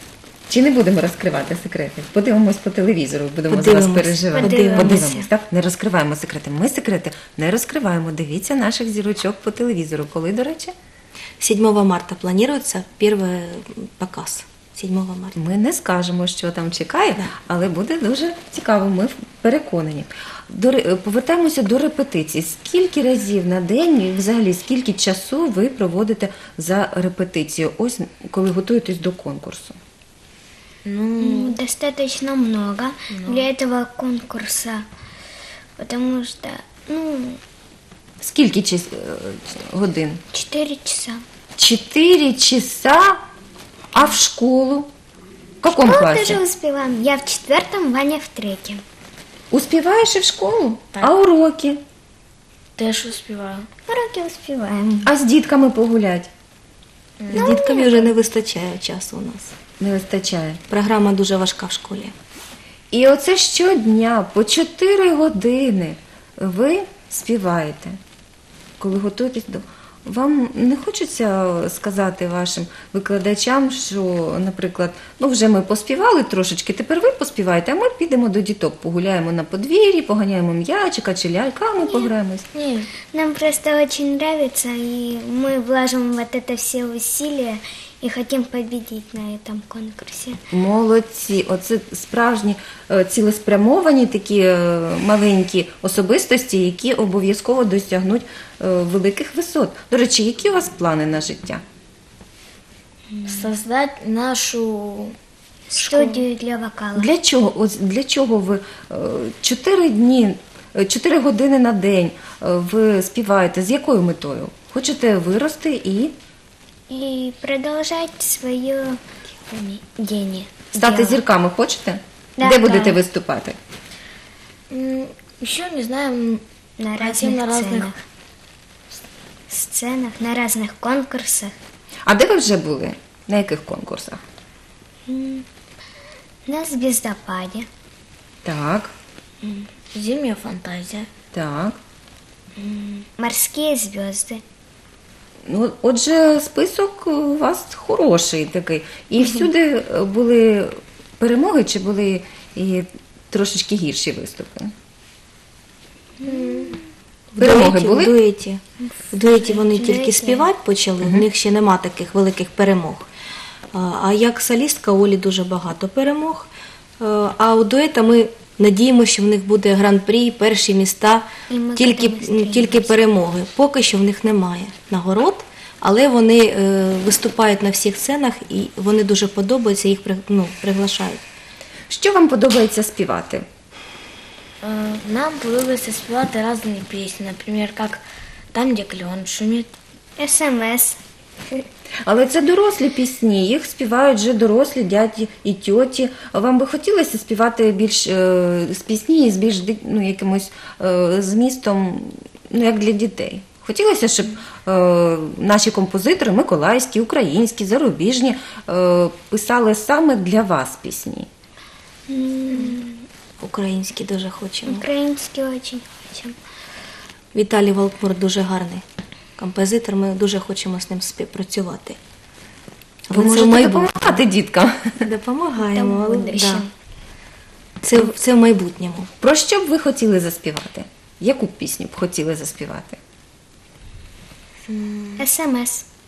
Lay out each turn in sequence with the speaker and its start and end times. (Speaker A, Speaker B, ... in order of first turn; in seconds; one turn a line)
Speaker A: 0.5-10.7
Speaker B: 3.5-5.0
Speaker C: 4.3-5.3
Speaker B: 11.4-15.3
Speaker A: 15.3-29.8
Speaker D: 30.8-31.6
Speaker C: 31.2-34.8
Speaker D: 33.1-33.5
Speaker C: 35.8-37.4
Speaker A: 38.2-40.2
Speaker C: 40.3-41.2
Speaker A: 41.6-43.2
Speaker A: 43.9-44.9
Speaker A: 45.6-46.4
Speaker C: 45.9-48.8
Speaker A: 49.5-51.8
Speaker D: 52.8-53.7
Speaker C: 53.9-55.1
Speaker A: 55.0-56.3
Speaker D: 57.2-57.6
Speaker B: 57.3-59.5
Speaker C: 57.3-58.1
Speaker A: 59.8-60.6
Speaker B: 60.7-62.1
Speaker A: 62.9-68.0
Speaker A: 68.8-82.5
Speaker C: 81.8-82.1
Speaker D: 82.5-82.9
Speaker C: 83.1-90.4
Speaker A: 90.5-101.6
Speaker C: 103.2-103.5
Speaker D: 103.2-105.1
Speaker C: 105.7-107.1
Speaker D: 105.8-106.2
Speaker A: 107.0-116.1
Speaker C: 116.9-119.0
Speaker C: 119.5-121.2
Speaker A: 120.7-123.6
Speaker C: 122.4-123.0
Speaker D: 124.7-126.4
Speaker C: 126.8-128.0
Speaker D: 127.0-128.0
Speaker C: 129.5-131.5
Speaker A: 132.1-134.2
Speaker C: 135.1-135.4
Speaker C: 136.5-137.7
Speaker A: 138.4-138.9
Speaker D: 139.9-141.1
Speaker A: 141.3-141.8
Speaker C: 142.6-144.4
Speaker A: 145.4-154.7
Speaker C: 156.2-156.8
Speaker D: 156.2-156.7
Speaker B: 157.3-163.1
Speaker A: 157.4-158.1
Speaker C: 159.5-160.5
Speaker A: 161.0-161.3
Speaker B: 163.7-166.5
Speaker B: 167.0-171.2
Speaker C: 171.5-172.9
Speaker B: 171.8-181.2
Speaker A: 181.9-183.4
Speaker D: 184.6-189.7
Speaker C: 190.2-191.0
Speaker A: 192.0-211.3
Speaker C: 212.1-213.0
Speaker B: 213.4-214.8
Speaker C: 214.7-216.3
Speaker B: 217.3-218.8
Speaker B: 219.4-222.0
Speaker B: 223.1-224.2
Speaker A: 223.1-225.0
Speaker B: 225.0-226.7
Speaker C: 225.6-226.7
Speaker B: 227.8-229.1
Speaker A: 229.2-233.0
Speaker D: 234.7-235.2
Speaker C: 235.2-235.8